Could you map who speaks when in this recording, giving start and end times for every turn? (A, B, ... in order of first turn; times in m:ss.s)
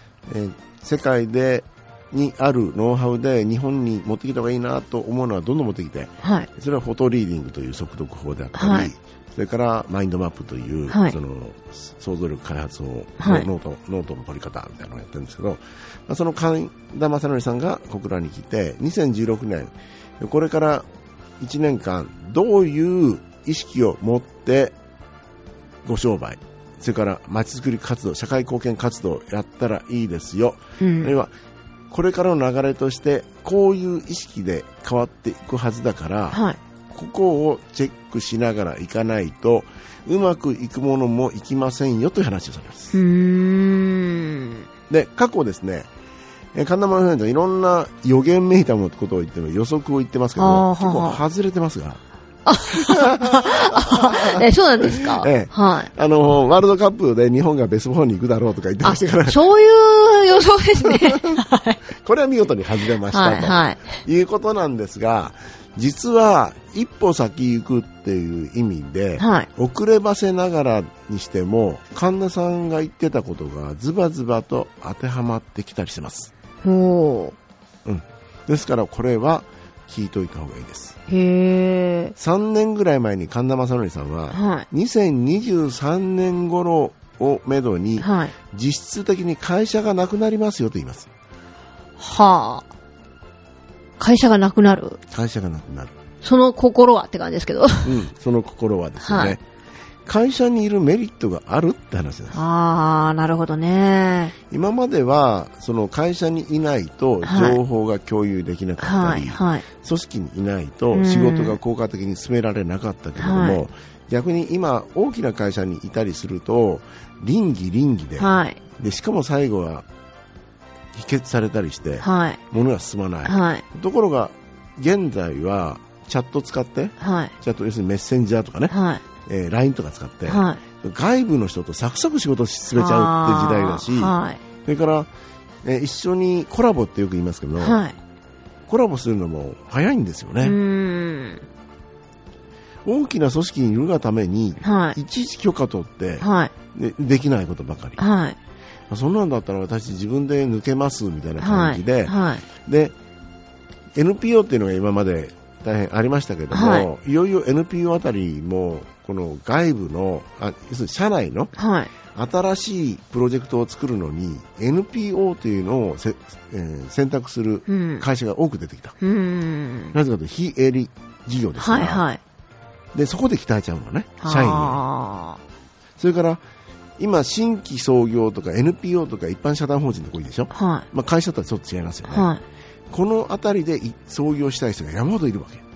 0:00.3-0:20.9 A
0:06.2-0:06.5 B
0:08.6-0:08.9 B
0:10.9-0:11.2 B
0:13.2-0:13.5 B
0:21.4-0:24.8 A
0:25.8-0:31.3 A
0:30.8-0:31.2 B
0:31.9-0:43.0 A
0:36.3-0:36.6 B
0:42.9-0:44.7 B
0:44.9-0:45.9 A
0:46.5-0:52.0 A
0:50.4-0:51.2 B
0:52.5-0:55.9 B
0:52.7-0:59.4 A
0:58.8-1:01.8 B
1:00.8-1:16.3 A
1:03.1-1:03.9 B
1:09.2-1:09.5 B
1:16.6-1:17.4 B
1:17.8-1:21.0 A
1:21.1-1:22.2 B
1:22.2-1:31.1 A
1:24.3-1:24.7 B
1:28.0-1:28.3 B
1:32.0-1:32.6 B
1:34.0-1:35.0 B
1:35.1-1:36.0 A
1:36.2-1:38.0 B
1:37.8-1:39.4 A
1:39.0-1:39.4 B
1:40.1-1:42.4 A
1:42.3-1:44.3 B
1:44.5-1:59.9 A
1:47.2-1:47.6 B
1:48.8-1:49.6 B
1:50.9-1:51.6 B
1:53.2-1:53.6 B
1:58.2-1:58.6 B
2:00.9-2:15.1 A
2:02.0-2:02.4 B
2:03.2-2:03.6 B
2:07.0-2:07.3 B
2:08.7-2:09.0 B
2:10.3-2:10.6 B
2:12.8-2:14.4 B
2:15.6-2:17.8 A
2:17.6-2:18.0 B
2:18.7-2:20.6 A
2:20.4-2:21.4 B
2:22.8-2:28.0 A
2:24.6-2:25.0 B
2:26.2-2:26.5 B
2:28.0-2:28.4 B
2:28.9-2:33.0 A
2:31.4-2:32.4 B
2:34.0-2:41.5 A
2:36.5-2:36.9 B
2:41.6-2:41.9 B
2:42.1-2:49.0 A
2:47.7-2:48.1 B
2:49.0-2:50.0 B
2:49.9-2:52.1 A
2:51.6-2:52.2 B
2:52.9-2:54.8 A
2:54.2-2:55.4 B
2:56.0-2:56.4 A
2:57.0-3:02.3 A
3:00.5-3:00.9 B
3:02.1-3:02.4 B
3:02.9-3:05.6 A